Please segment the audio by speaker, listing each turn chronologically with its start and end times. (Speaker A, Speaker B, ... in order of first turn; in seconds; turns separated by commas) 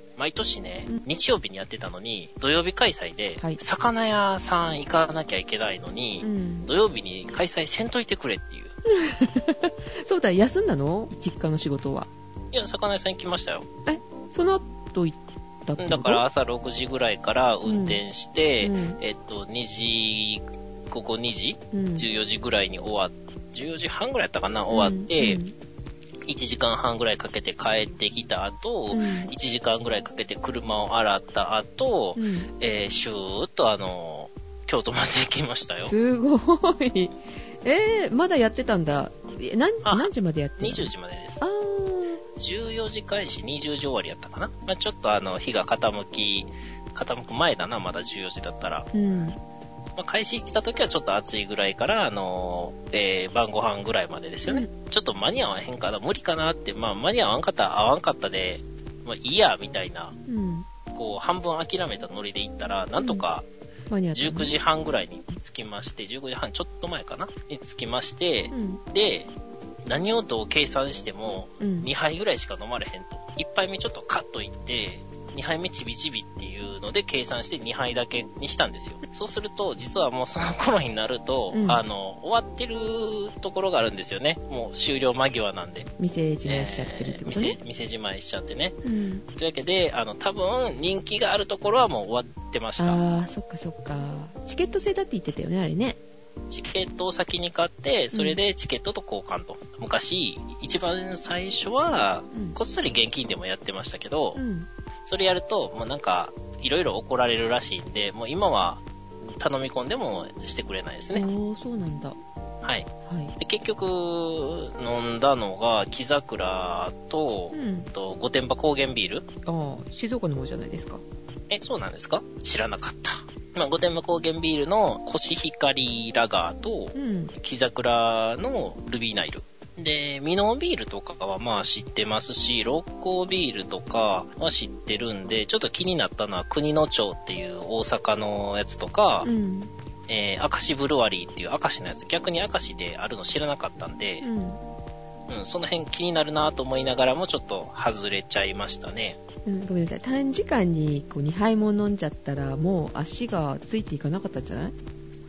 Speaker A: 0.2-8.8, Speaker B: 6.2-6.7, Speaker B: 8.9-12.1, Speaker A: 12.5-13.7, Speaker B: 13.9-16.2, Speaker A: 15.8-25.4, Speaker B: 17.6-18.0, Speaker B: 18.6-19.0, Speaker B: 21.7-22.1, Speaker B: 24.7-25.6, Speaker A: 26.3-36.0, Speaker B: 28.9-29.3, Speaker B: 32.2-32.5, Speaker B: 35.9-42.2, Speaker A: 39.8-41.4, Speaker A: 42.4-48.9, Speaker B: 48.9-49.4, Speaker A: 50.0-60.2, Speaker B: 60.3-60.7, Speaker A: 60.9-63.5, Speaker B: 63.0-63.2, Speaker B: 63.9-64.5, Speaker A: 64.1-69.3, Speaker B: 68.5-68.8, Speaker A: 69.9-85.9, Speaker B: 71.6-71.9, Speaker B: 81.5-81.8, Speaker B: 86.0-87.6, Speaker A: 86.5-88.8, Speaker B: 88.8-89.2, Speaker A: 89.3-93.0, Speaker B: 92.8-96.0, Speaker A: 96.5-104.4, Speaker B: 98.1-98.4, Speaker B: 104.3-104.7, Speaker A: 105.1-111.2, Speaker B: 111.1-112.2, Speaker A: 112.6-119.3, Speaker B: 113.0-113.3, Speaker B: 117.5-117.9, Speaker B: 119.5-121.0, Speaker A: 121.5-139.3, Speaker B: 127.0-127.3, Speaker B: 139.2-139.7, Speaker A: 140.1-144.3, Speaker B: 144.2-144.6, Speaker A: 145.3-149.2, Speaker B: 149.5-154.8